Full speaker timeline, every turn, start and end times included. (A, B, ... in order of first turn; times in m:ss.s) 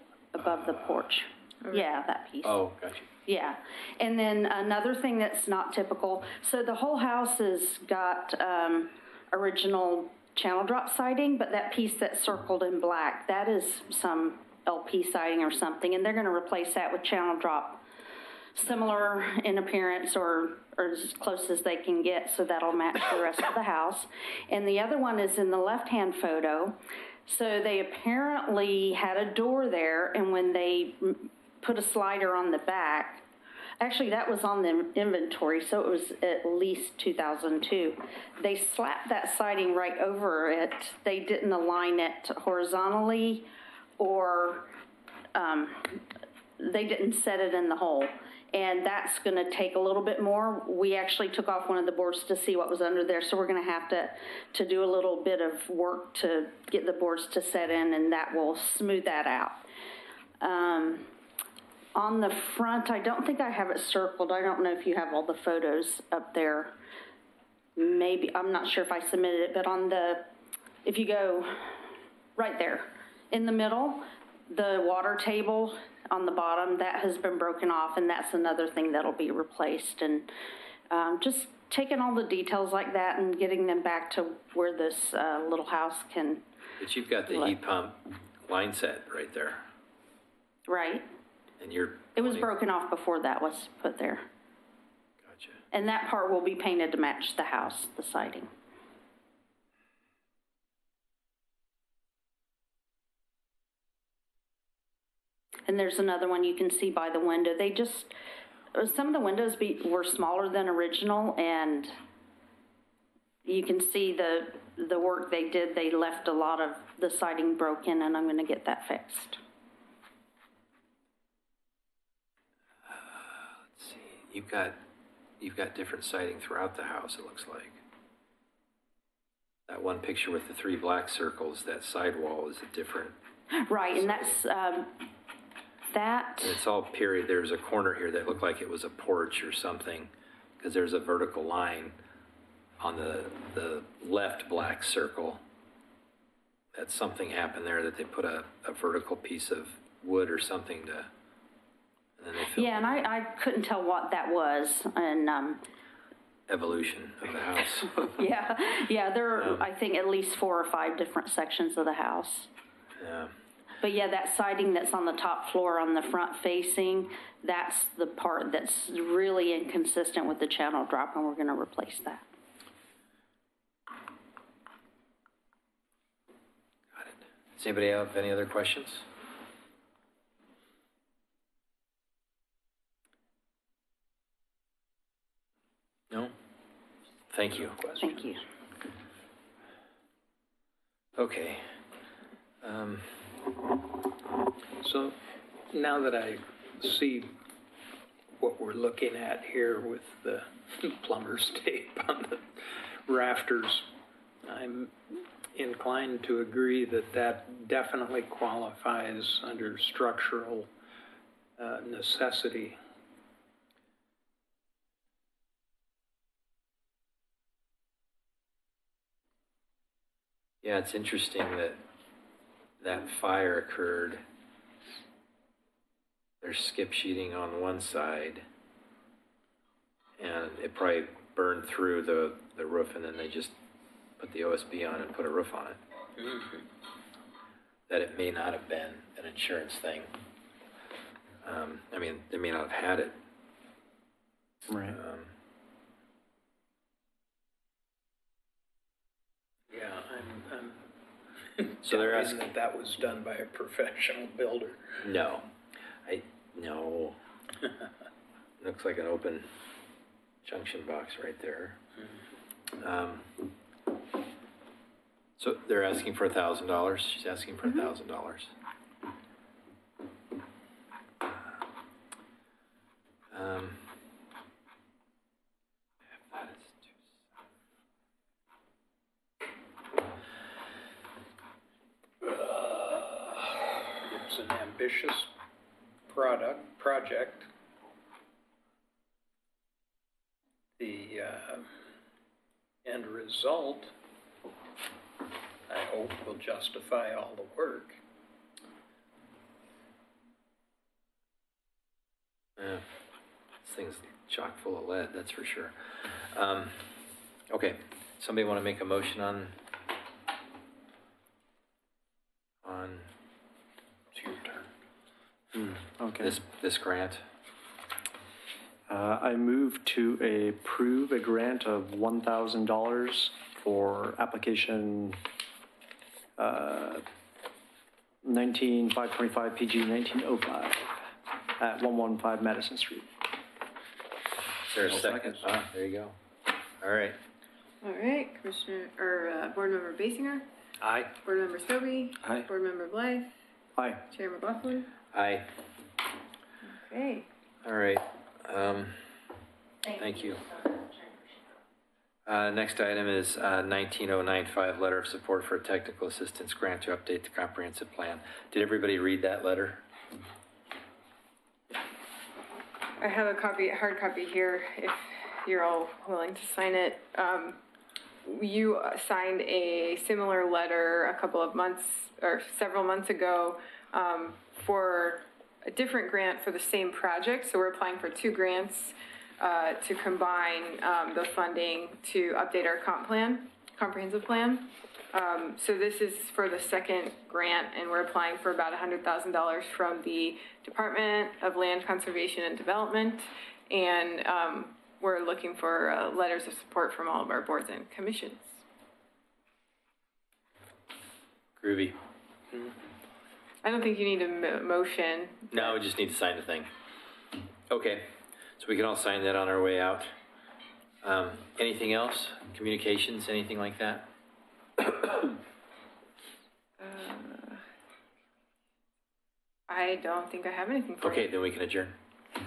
0:00.3-0:02.6 A
0:02.4-0:03.1 B
0:03.2-0:17.8 A
0:18.5-0:33.2 A
0:33.8-0:43.5 A
0:44.0-0:44.7 A
0:45.3-0:46.0 A
0:46.6-0:59.6 A
1:00.4-1:01.1 A
1:01.9-1:06.7 A
1:07.8-1:10.3 A
1:10.8-1:11.8 A
1:12.4-1:20.3 A
1:20.9-1:26.4 A
1:26.8-1:29.6 B
1:27.3-1:27.5 A
1:30.7-1:31.0 A
1:31.6-1:32.5 B
1:32.1-1:34.2 A
1:35.2-1:35.6 B
1:35.7-1:38.5 A
1:45.6-1:48.1 A
1:48.7-1:52.0 A
1:53.4-1:59.4 A
2:02.9-2:04.8 B
2:05.4-2:07.8 B
2:09.7-2:13.2 B
2:13.5-2:14.9 A
2:13.9-2:14.4 B
2:15.9-2:16.6 A
2:16.4-2:22.0 B
2:22.8-2:25.4 B
2:26.7-2:31.1 B
2:32.2-2:33.1 B
2:32.5-2:35.6 A
2:36.5-2:38.1 B
2:38.0-2:42.5 A
2:39.3-2:39.6 B
2:43.0-2:43.3 B
2:43.8-2:52.2 A
2:56.9-2:59.1 B
3:06.1-3:06.3 B
3:07.3-3:07.8 B
3:07.6-3:08.3 C
3:08.0-3:08.4 A
3:11.2-3:11.8 B
3:12.6-3:13.4 B
3:14.8-3:15.2 C
3:15.7-3:17.4 C
3:18.4-3:23.9 C
3:24.4-3:30.7 C
3:31.6-3:32.8 C
3:40.6-3:41.8 B
3:42.8-3:44.2 B
3:46.4-3:48.4 B
3:50.2-3:53.6 B
3:54.2-3:55.8 B
3:56.2-3:56.6 C
3:57.9-4:00.1 B
4:01.4-4:03.2 B
4:04.7-4:05.0 D
4:04.9-4:05.3 B
4:09.7-4:10.8 C
4:11.5-4:15.0 C
4:11.8-4:12.4 B
4:15.0-4:15.5 B
4:16.0-4:17.2 B
4:18.6-4:19.5 B
4:20.4-4:21.8 B
4:22.8-4:23.3 B
4:25.4-4:28.5 B
4:33.3-4:34.0 B
4:36.2-4:37.0 B
4:42.5-4:43.3 B
4:44.0-4:45.3 C
4:46.1-4:47.5 C
4:50.8-4:51.7 C
4:52.8-4:53.9 C
4:55.7-4:58.0 C
5:02.6-5:02.8 B
5:03.6-5:09.6 B
5:12.6-5:13.1 B
5:14.1-5:14.7 C
5:15.6-5:17.2 B
5:16.0-5:16.4 D
5:18.9-5:25.2 D
5:26.4-5:27.0 D
5:28.2-5:31.0 D
5:31.5-5:33.1 D
5:34.6-5:36.2 B
5:34.9-5:35.4 D
5:36.8-5:37.2 B
5:37.8-5:40.4 E
5:40.8-5:41.1 C
5:41.2-5:43.3 E
5:43.8-5:44.0 D
5:44.1-5:44.9 E
5:45.1-5:45.5 B
5:46.7-5:47.3 E
5:47.6-5:49.0 B
5:49.8-5:51.1 A
5:49.9-5:50.4 B
5:52.2-5:59.8 B
6:03.0-6:07.6 E
6:08.2-6:38.6 E
6:41.6-6:42.0 B
6:43.6-6:45.8 E
6:45.5-6:46.7 B
6:47.7-6:50.1 B
6:51.0-6:54.1 B
6:54.8-6:55.3 B
6:56.8-6:57.6 E
6:59.7-7:01.3 E
7:01.0-7:02.0 B